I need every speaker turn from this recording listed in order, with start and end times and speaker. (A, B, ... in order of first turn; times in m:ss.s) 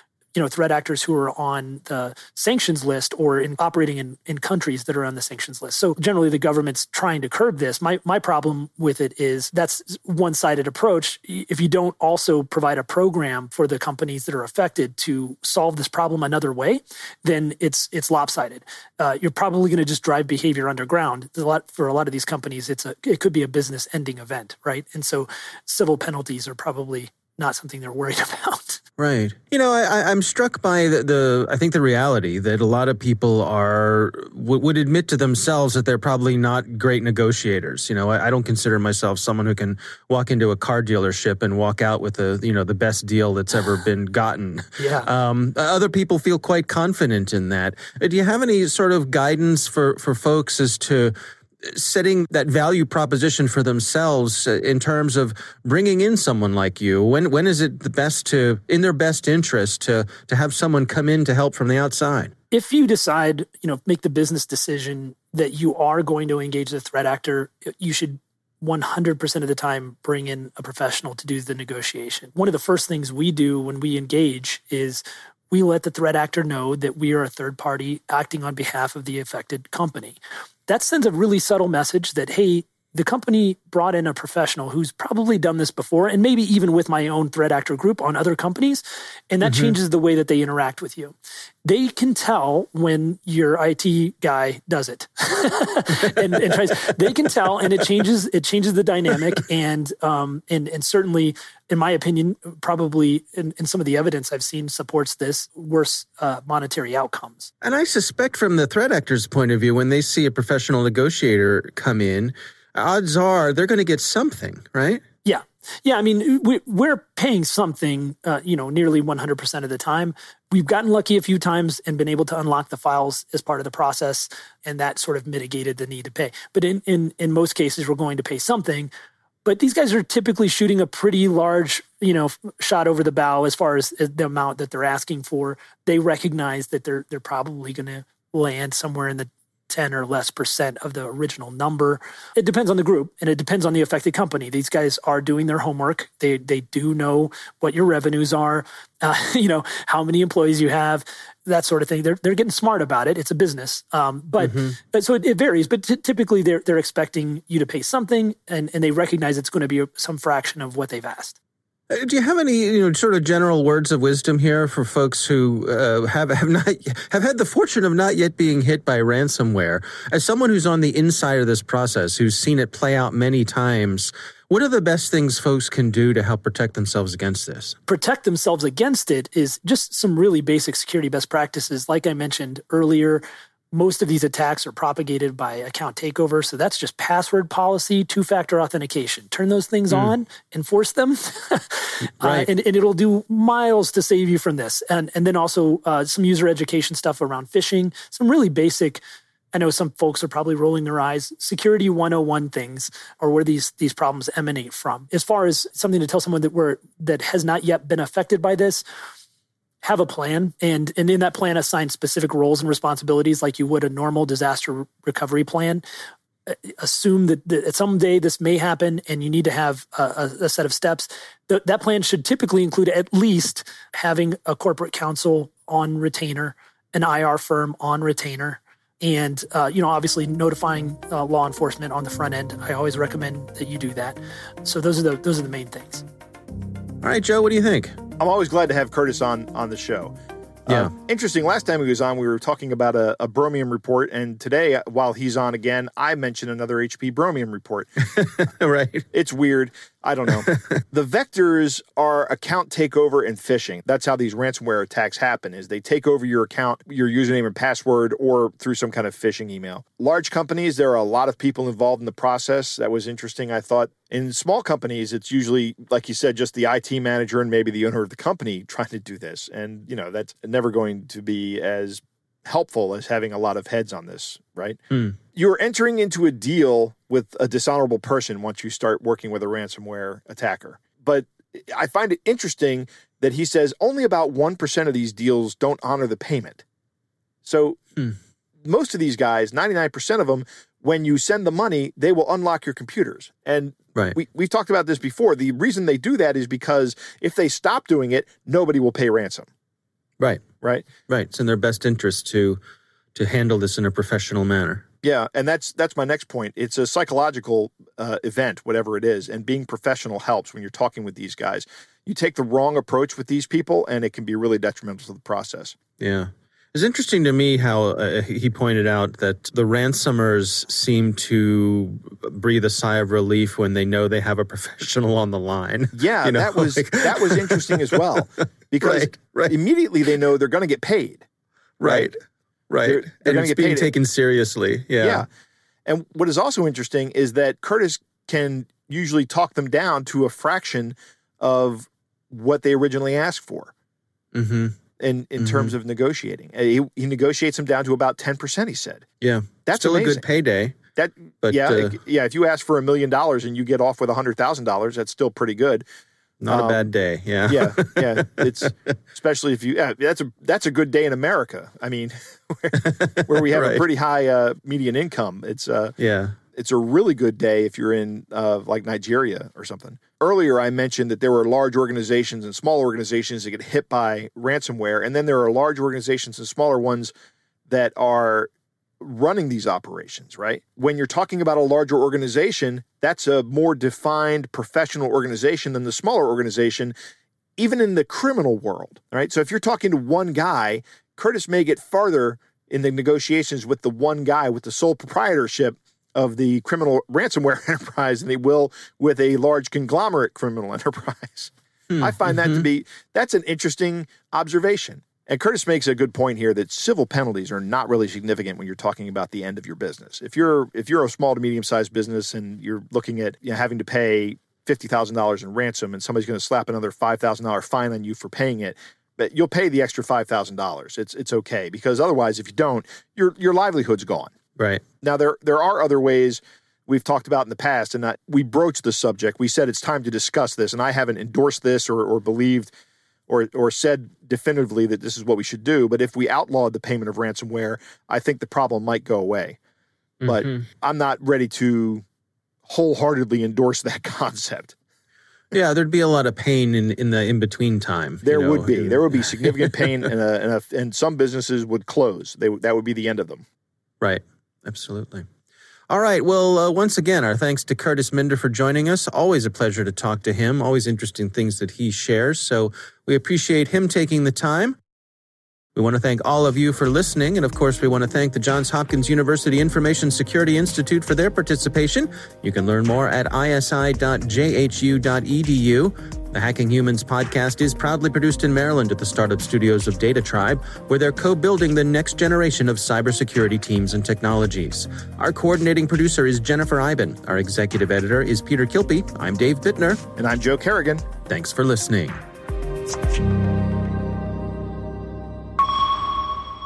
0:00.3-0:28.8 A
0:29.0-1:02.3 B
0:44.8-0:45.1 A
1:02.5-1:47.5 A
1:29.4-1:29.7 B
1:36.4-1:36.7 B
1:47.6-1:55.0 B
1:55.2-2:08.9 A
2:09.4-2:41.4 A
2:34.4-2:34.8 B
2:41.9-2:57.8 B
2:57.9-3:19.0 A
3:12.2-3:12.5 B
3:19.5-3:28.8 A
3:29.8-3:35.8 A
3:36.5-3:56.0 A
3:57.0-3:58.0 B
3:58.2-4:00.1 C
4:00.6-4:08.1 C
4:00.7-4:00.9 B
4:08.0-4:09.1 B
4:09.1-4:46.6 C
4:10.3-4:10.8 B
4:47.4-4:47.8 C
4:48.6-4:59.4 C
5:00.6-5:00.9 C
5:01.1-5:02.6 B
5:03.1-5:04.8 B
5:05.0-5:15.8 C
5:16.0-5:28.2 B
5:25.9-5:31.2 C
5:28.8-5:29.5 B
5:31.8-5:32.1 B
5:31.8-5:32.1 C
5:32.7-5:35.2 B
5:32.8-5:33.9 C
5:35.0-5:35.3 C
5:35.8-5:43.7 C
5:44.3-5:44.8 B
5:45.0-5:49.0 C
5:45.4-5:45.7 B
5:49.2-5:50.8 B
5:49.6-5:50.2 C
5:51.0-5:55.8 C
5:51.4-5:52.0 B
5:56.4-5:58.7 B
5:56.5-5:56.9 C
5:57.5-6:06.0 C
6:02.7-6:03.8 B
6:06.0-6:06.4 B
6:06.5-6:17.1 C
6:17.7-6:26.9 C
6:27.6-7:04.3 C
6:41.9-6:42.6 B
7:04.6-7:04.8 B
7:05.0-7:12.7 C
7:13.3-7:19.6 C
7:20.2-7:20.6 B
7:20.2-7:22.0 C
7:22.6-7:24.7 C
7:25.5-7:29.9 B
7:28.2-7:33.4 C
7:34.0-7:35.3 B
7:35.9-7:44.8 B
7:45.7-8:10.0 B
8:10.2-8:11.0 C
8:11.2-8:12.2 B